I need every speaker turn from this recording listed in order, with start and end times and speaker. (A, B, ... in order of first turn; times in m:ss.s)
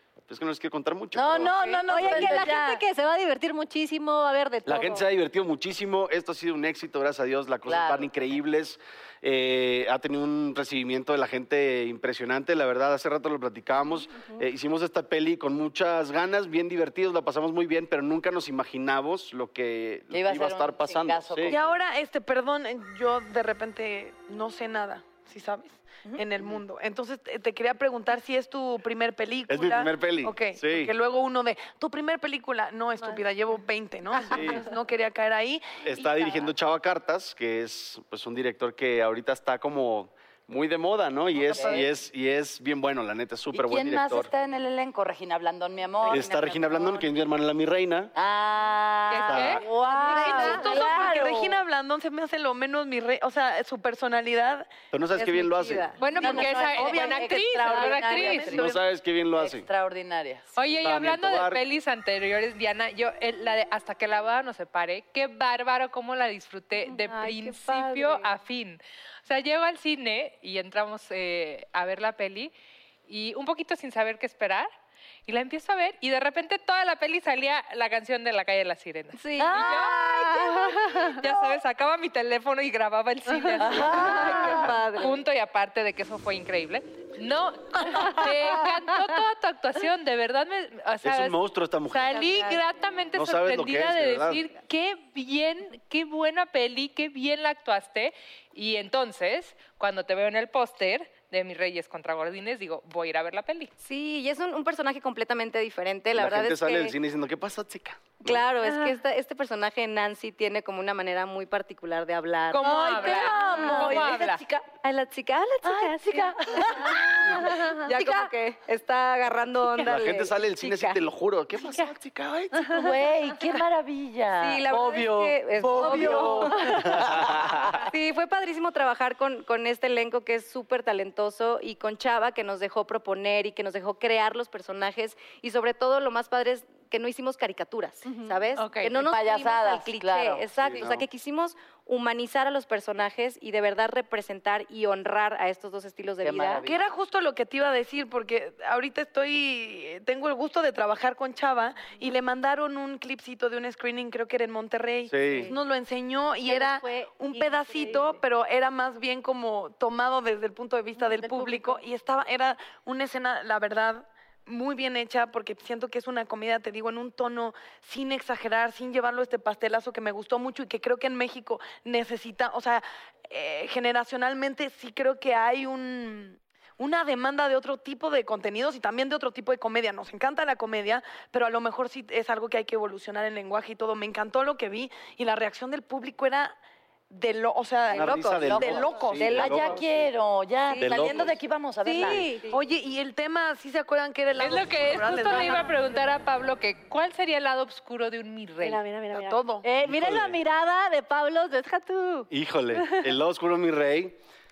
0:00.3-0:02.4 A
0:01.1-0:02.8 B
0:01.9-0:05.0 C
0:04.7-0:21.6 A
0:07.7-0:08.4 B
0:20.1-0:21.8 B
0:21.5-0:35.8 D
0:29.5-0:30.9 A
0:34.3-0:34.7 A
0:35.8-0:44.3 A
0:41.4-0:41.9 B
0:43.5-0:47.0 B
0:46.1-0:48.1 A
0:48.2-0:51.6 B
0:49.1-0:51.1 E
0:49.2-0:49.7 A
0:49.9-0:50.6 C
0:50.2-0:54.8 D
0:54.9-0:56.0 A
0:55.2-0:56.5 F
0:56.0-0:58.6 E
0:56.0-1:00.6 B
0:56.8-0:58.4 D
0:58.4-0:59.7 A
1:00.6-1:12.5 E
1:00.8-1:01.6 A
1:06.9-1:08.1 C
1:07.0-1:08.2 F
1:13.1-1:14.7 E
1:15.3-1:31.4 E
1:19.2-1:20.8 F
1:19.4-1:20.6 B
1:23.3-1:24.6 C
1:23.6-1:24.7 B
1:23.8-1:25.2 F
1:31.0-1:32.3 A
1:31.9-1:43.7 E
1:32.2-1:32.6 F
1:33.1-1:34.4 A
1:43.8-1:47.0 F
1:46.1-1:48.4 A
1:48.2-2:01.0 F
1:52.5-1:54.4 E
1:52.6-1:54.4 B
1:53.3-1:54.0 C
1:55.6-1:57.5 B
1:56.6-1:58.3 C
1:59.8-2:02.8 A
2:02.6-2:02.9 C
2:02.7-2:07.8 B
2:04.4-2:06.6 F
2:05.8-2:07.0 C
2:05.8-2:07.6 A
2:07.8-2:26.6 F
2:18.1-2:18.4 C
2:18.6-2:18.9 E
2:18.9-2:20.5 B
2:20.6-2:21.1 A
2:26.2-2:26.8 B
2:26.6-3:06.6 D
2:35.1-2:35.5 A
2:35.3-2:35.6 C
2:36.4-2:38.2 C
2:41.0-2:41.8 C
3:07.1-3:09.4 D
3:07.9-3:10.1 A
3:08.1-3:08.4 F
3:08.4-3:12.3 B
3:09.3-3:09.8 F
3:10.7-3:11.3 F
3:10.8-3:11.4 A
3:11.8-3:12.5 C
3:12.0-3:12.6 F
3:12.5-3:15.8 D
3:14.4-3:18.8 E
3:15.3-3:15.6 C
3:18.6-3:23.1 C
3:19.1-3:19.7 D
3:19.8-3:20.4 A
3:22.3-3:24.2 A